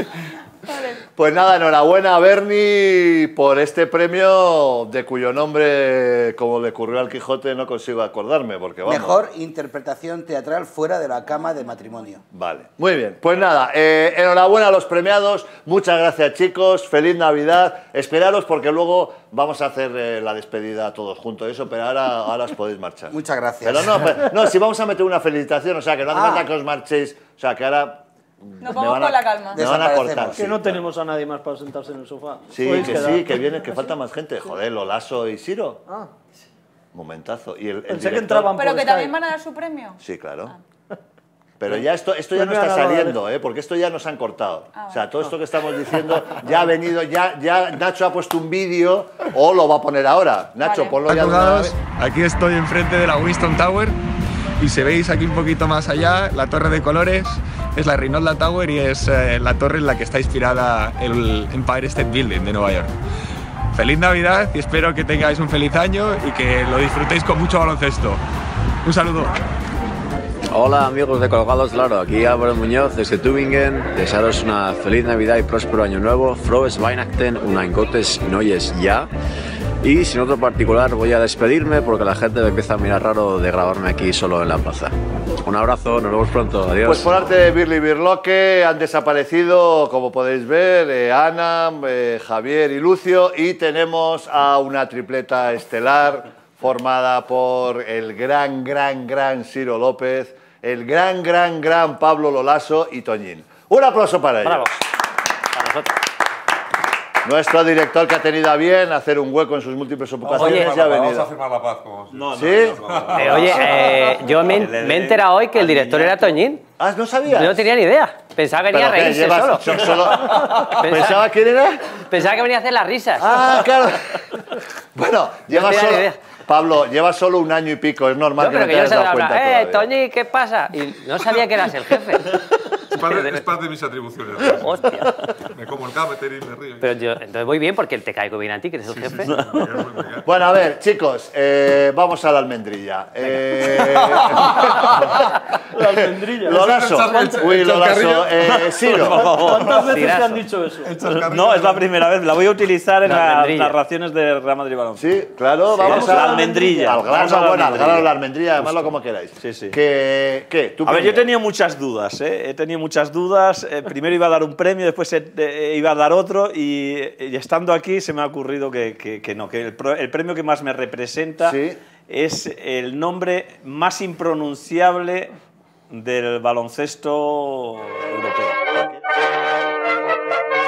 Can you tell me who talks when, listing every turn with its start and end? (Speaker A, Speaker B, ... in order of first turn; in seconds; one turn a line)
Speaker A: 0.7-1.0
Speaker B: 1.1-9.2
Speaker C: 8.8-12.2
Speaker B: 12.3-30.8
Speaker C: 23.1-24.2
Speaker D: 26.1-26.5
Speaker A: 28.6-29.8
Speaker C: 29.5-30.5
Speaker D: 30.3-33.3
Speaker B: 32.5-35.8
Speaker B: 36.9-38.5
Speaker D: 37.9-39.2
Speaker A: 38.6-40.6
Speaker B: 40.0-40.5
Speaker B: 41.6-51.8
Speaker D: 41.7-43.2
Speaker A: 44.7-45.3
Speaker A: 50.6-51.0
Speaker E: 51.1-54.0
Speaker E: 54.6-62.9
Speaker E: 63.7-68.2
Speaker E: 68.8-69.3
Speaker F: 70.5-79.1
Speaker F: 79.8-87.2
Speaker B: 86.8-104.8
Speaker G: 104.4-104.7
Speaker G: 105.5-105.9
Speaker B: 107.2-111.3
Speaker H: 110.2-112.3
Speaker G: 110.3-110.7
Speaker I: 112.1-116.4
Speaker B: 112.3-112.8
Speaker H: 112.8-113.7
Speaker G: 113.2-116.6
Speaker B: 116.8-117.7
Speaker G: 117.3-121.2
Speaker B: 118.7-122.0
Speaker H: 120.3-120.6
Speaker G: 122.0-123.3
Speaker B: 123.2-129.9
Speaker G: 125.5-126.2
Speaker G: 128.4-132.4
Speaker H: 132.8-136.9
Speaker G: 133.1-133.4
Speaker G: 134.6-135.1
Speaker G: 136.8-139.3
Speaker H: 138.9-140.3
Speaker I: 139.2-139.7
Speaker B: 140.2-144.9
Speaker H: 143.8-145.1
Speaker D: 145.7-147.5
Speaker B: 145.9-149.3
Speaker H: 146.5-148.9
Speaker I: 148.8-149.8
Speaker D: 149.4-151.0
Speaker H: 149.6-150.1
Speaker G: 149.9-150.4
Speaker H: 150.8-151.9
Speaker I: 151.1-155.1
Speaker G: 153.1-153.8
Speaker B: 155.0-161.3
Speaker I: 155.8-159.8
Speaker D: 155.8-157.1
Speaker I: 160.8-171.6
Speaker B: 171.4-171.8
Speaker I: 172.1-175.3
Speaker I: 175.9-178.9